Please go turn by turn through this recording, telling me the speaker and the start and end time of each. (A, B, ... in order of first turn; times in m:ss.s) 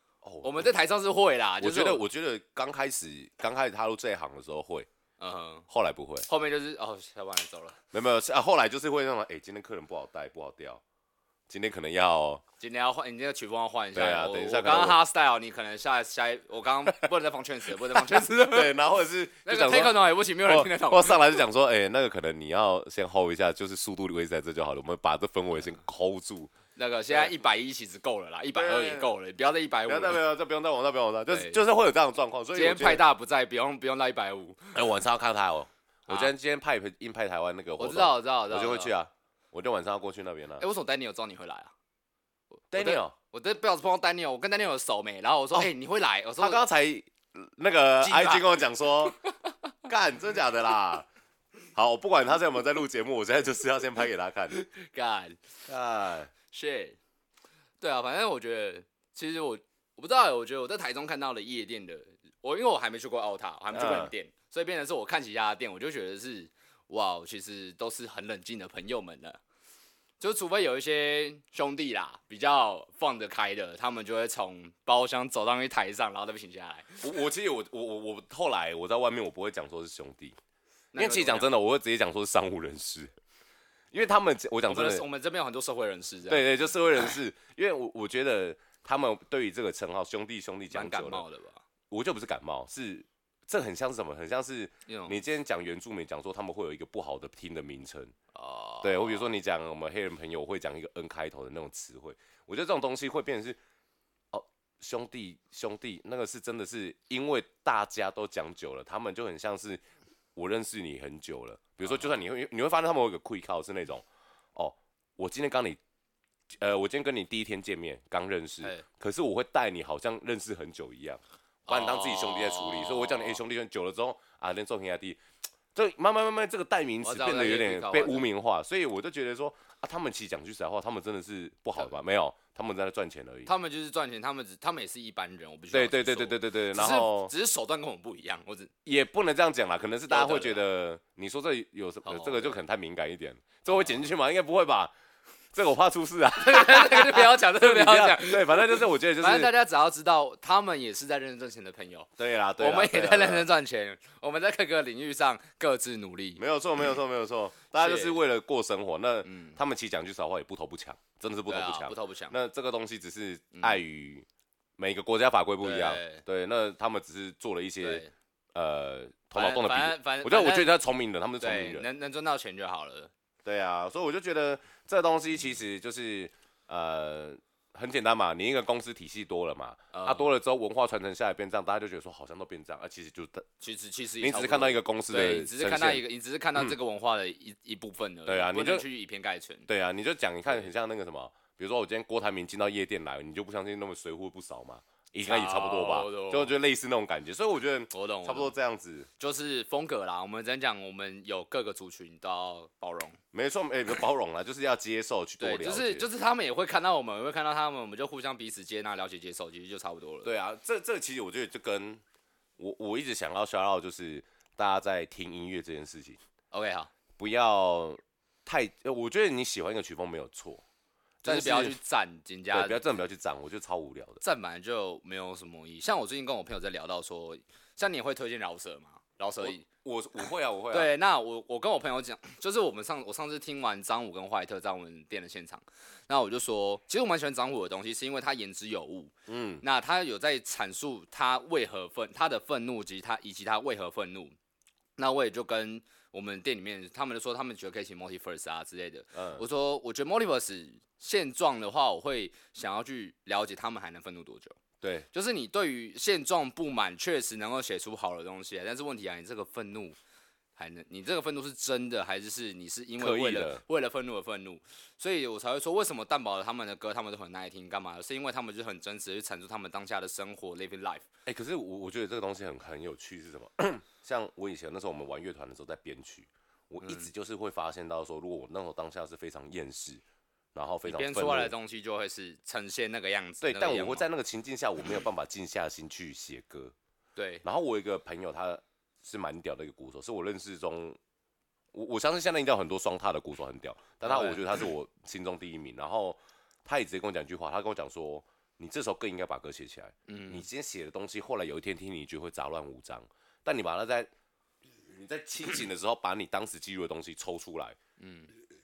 0:00.2-0:00.7 A
0:00.4-0:02.0 B
0:01.6-0:04.9 A
0:05.2-0:05.7 B
0:05.7-0:06.2 A
0:06.3-0:07.8 B
0:07.9-0:10.8 A
0:11.5-0:12.4 A
0:12.6-0:18.7 B
0:13.9-0:15.0 A
0:17.9-0:26.5 A
0:19.4-0:21.4 B
0:26.8-0:30.2 B
0:28.5-0:29.1 A
0:29.9-0:33.0 A
0:31.3-0:31.6 B
0:32.5-0:34.8 B
0:34.7-0:40.6 A
0:37.8-0:38.9 B
0:40.6-0:41.7 B
0:42.6-0:46.6 B
0:42.7-0:43.1 A
0:46.4-0:49.2 A
0:48.0-0:49.3 B
0:49.9-0:51.1 A
0:51.7-0:54.5 A
0:54.5-0:55.4 B
0:55.7-0:56.3 A
0:56.5-0:57.0 B
0:57.8-1:09.4 B
1:03.7-1:04.1 A
1:10.2-1:17.0 B
1:17.0-1:20.4 A
1:20.9-1:21.5 B
1:21.0-1:23.1 A
1:23.9-1:25.0 A
1:24.7-1:26.4 B
1:26.3-1:31.2 A
1:30.7-1:31.6 B
1:31.9-1:38.1 A
1:34.9-1:35.2 B
1:38.3-1:39.3 B
1:38.8-1:43.6 A
1:44.3-1:49.8 A
1:50.4-1:55.8 A
1:51.8-1:52.1 B
1:56.5-2:05.2 A
2:01.7-2:03.4 B
2:05.7-2:13.5 A
2:07.0-2:08.3 B
2:13.4-2:18.7 B
2:15.7-2:17.3 A
2:18.8-2:24.9 A
2:20.1-2:20.6 B
2:22.0-2:22.6 B
2:25.5-2:29.5 A
2:26.4-2:36.4 B
2:32.2-2:33.5 A
2:36.4-2:44.2 A
2:37.8-2:38.2 B
2:39.2-2:39.6 B
2:41.5-2:42.4 B
2:43.5-2:43.8 B
2:44.8-2:51.8 A
2:45.6-2:46.2 B
2:47.8-2:48.1 B
2:49.3-2:50.7 B
2:51.4-2:53.1 B
2:53.4-3:03.4 A
2:59.9-3:00.3 B
3:03.6-3:09.7 B
3:04.2-3:06.0 A
3:08.2-3:08.8 A
3:09.7-3:19.1 A
3:15.2-3:16.5 B
3:17.9-3:18.5 B
3:19.2-3:23.2 B
3:23.3-3:26.1 A
3:25.4-3:30.3 B
3:30.2-3:32.0 A
3:32.6-3:36.2 A
3:36.5-3:36.9 B
3:37.2-3:40.6 A
3:41.2-3:41.8 A
3:41.2-3:42.8 B
3:42.5-3:44.2 A
3:44.2-3:49.6 B
3:49.4-3:50.9 A
3:50.7-4:04.4 B
3:59.3-3:59.6 A
4:05.0-4:14.6 B
4:09.1-4:09.4 A
4:14.8-4:15.1 A
4:15.1-4:20.0 B
4:20.6-4:31.0 B
4:23.0-4:23.6 A
4:31.2-4:40.0 A
4:36.8-4:37.1 B
4:40.5-4:41.5 A
4:40.8-4:44.1 B
4:43.4-4:46.7 A
4:47.2-4:47.4 B
4:47.4-4:51.0 A
4:51.7-5:04.1 A
4:54.0-4:54.4 B
5:00.1-5:00.4 B
5:04.9-5:07.8 A
5:08.0-5:08.3 B